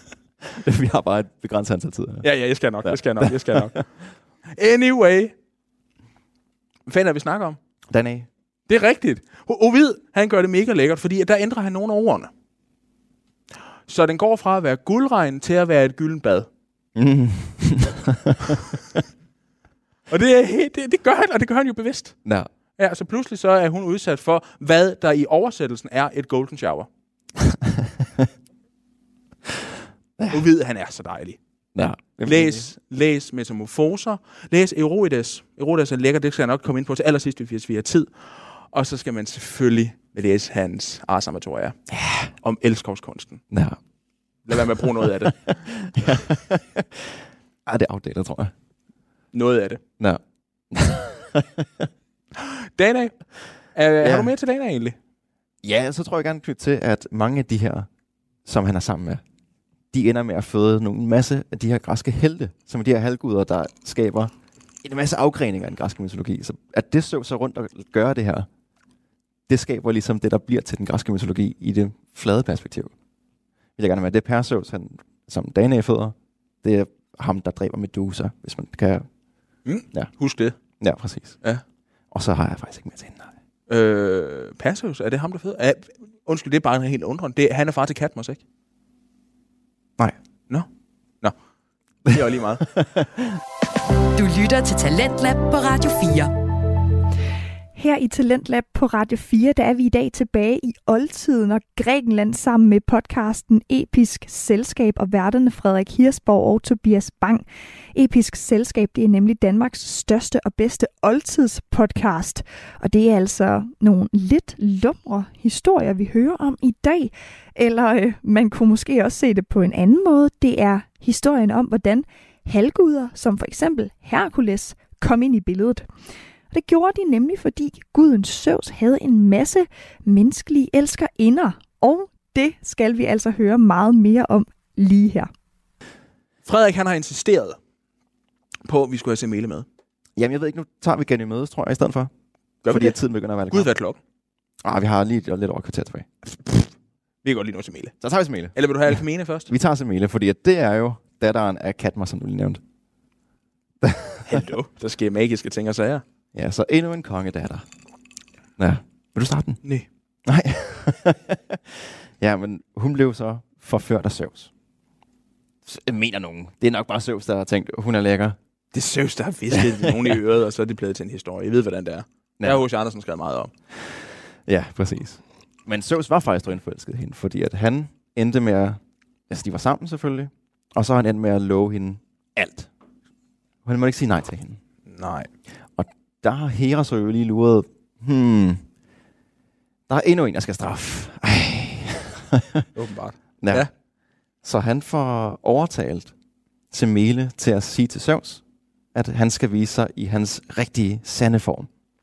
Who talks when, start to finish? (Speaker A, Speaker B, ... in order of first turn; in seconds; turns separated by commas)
Speaker A: 0.5-2.3, Speaker B: 2.2-3.9, Speaker A: 2.8-3.8, Speaker B: 4.5-5.3, Speaker B: 6.9-7.6, Speaker A: 7.9-8.3, Speaker B: 8.7-12.3, Speaker B: 13.9-16.5, Speaker A: 16.9-19.0, Speaker B: 20.1-22.1, Speaker B: 22.8-26.9, Speaker A: 27.5-28.2, Speaker A: 30.2-30.4, Speaker B: 30.3-31.4, Speaker A: 31.7-32.7, Speaker B: 32.2-41.8, Speaker A: 41.9-42.3, Speaker B: 42.4-43.4, Speaker A: 43.5-43.8, Speaker B: 44.5-45.6, Speaker A: 44.5-48.5, Speaker B: 49.3-49.8, Speaker A: 50.0-51.9, Speaker B: 52.3-53.1, Speaker B: 53.7-55.0, Speaker A: 54.0-54.3, Speaker A: 55.6-57.9, Speaker A: 58.4-59.2, Speaker A: 59.9-64.3, Speaker A: 64.8-68.5, Speaker A: 69.5-72.9, Speaker A: 73.8-79.0, Speaker B: 79.7-80.5, Speaker A: 80.8-81.4, Speaker A: 82.1-83.3, Speaker B: 83.7-88.4, Speaker B: 92.0-92.7, Speaker A: 92.7-93.4, Speaker C: 94.1-96.3, Speaker D: 97.8-125.8, Speaker D: 126.5-135.3, Speaker B: 136.4-137.6, Speaker B: 138.7-139.7, Speaker A: 140.2-142.1, Speaker B: 142.6-143.0, Speaker A: 142.7-143.7, Speaker B: 143.5-144.0, Speaker A: 144.6-146.1, Speaker B: 147.2-147.9, Speaker A: 148.0-148.5, Speaker B: 148.5-149.5, Speaker A: 149.5-152.6, Speaker A: 153.8-154.4, Speaker B: 154.2-156.0, Speaker A: 156.3-157.6, Speaker A: 158.6-159.6, Speaker A: 160.2-164.5, Speaker A: 165.7-168.4, Speaker B: 168.7-173.5, Speaker A: 169.5-170.2, Speaker A: 172.4-172.6, Speaker A: 174.4-182.7, Speaker A: 183.6-184.6, Speaker B: 184.9-185.3, Speaker A: 185.8-188.6, Speaker A: 189.9-192.7, Speaker B: 192.7-193.7, Speaker A: 193.4-193.7, Speaker A: 194.4-196.1, Speaker A: 196.7-198.4, Speaker A: 198.9-201.7